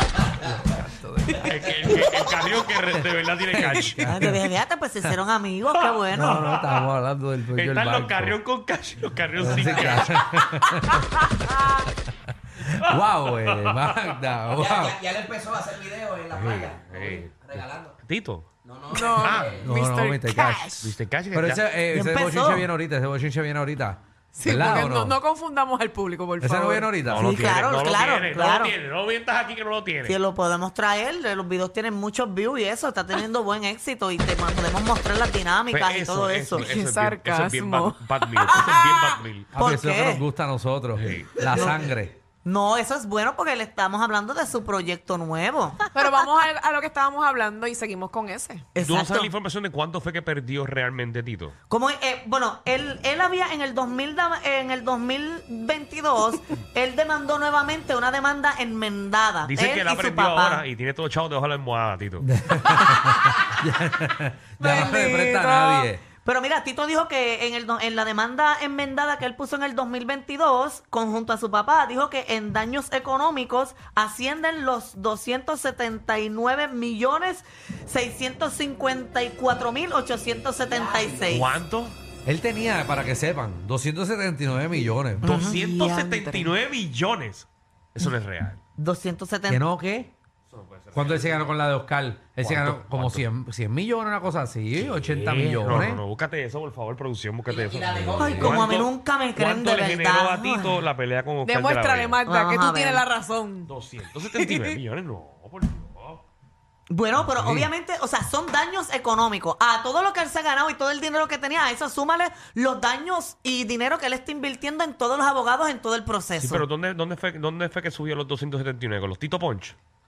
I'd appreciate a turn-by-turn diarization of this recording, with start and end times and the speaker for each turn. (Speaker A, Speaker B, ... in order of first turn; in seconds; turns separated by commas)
Speaker A: 0.4-1.6, Speaker B: 1.4-4.3, Speaker A: 2.9-4.5, Speaker C: 4.0-6.5, Speaker A: 6.1-8.4, Speaker B: 7.5-11.0, Speaker A: 9.4-11.2, Speaker A: 12.3-15.0, Speaker B: 12.6-14.1, Speaker D: 14.5-17.9, Speaker B: 16.3-18.5, Speaker D: 18.6-19.7, Speaker E: 18.9-20.8, Speaker B: 19.1-19.6, Speaker A: 19.6-25.2, Speaker B: 20.8-21.7, Speaker C: 21.9-22.7, Speaker E: 24.3-26.9, Speaker A: 26.4-27.5, Speaker B: 27.1-30.2, Speaker C: 27.2-28.8, Speaker C: 30.1-36.7, Speaker B: 35.7-39.5, Speaker E: 36.5-39.2, Speaker A: 39.5-42.1, Speaker C: 39.6-40.2, Speaker B: 40.9-41.5, Speaker C: 41.5-41.8, Speaker C: 42.4-45.9, Speaker E: 45.9-48.7, Speaker C: 48.8-49.3, Speaker B: 48.8-51.6, Speaker C: 51.7-60.6, Speaker B: 59.4-62.3, Speaker A: 62.2-66.0, Speaker E: 64.6-65.9, Speaker C: 66.2-81.5, Speaker D: 80.7-81.2, Speaker B: 81.3-81.9, Speaker A: 82.2-85.4, Speaker C: 85.2-86.5, Speaker B: 85.2-88.6, Speaker C: 88.8-89.6, Speaker A: 89.5-90.1, Speaker B: 90.5-91.5, Speaker A: 90.9-96.0, Speaker B: 92.4-93.2, Speaker B: 94.8-102.2, Speaker D: 97.5-98.8, Speaker C: 98.2-100.8, Speaker E: 101.4-104.8, Speaker C: 102.2-103.0, Speaker B: 103.7-106.2, Speaker C: 106.9-116.7, Speaker A: 107.2-107.7, Speaker B: 116.4-119.8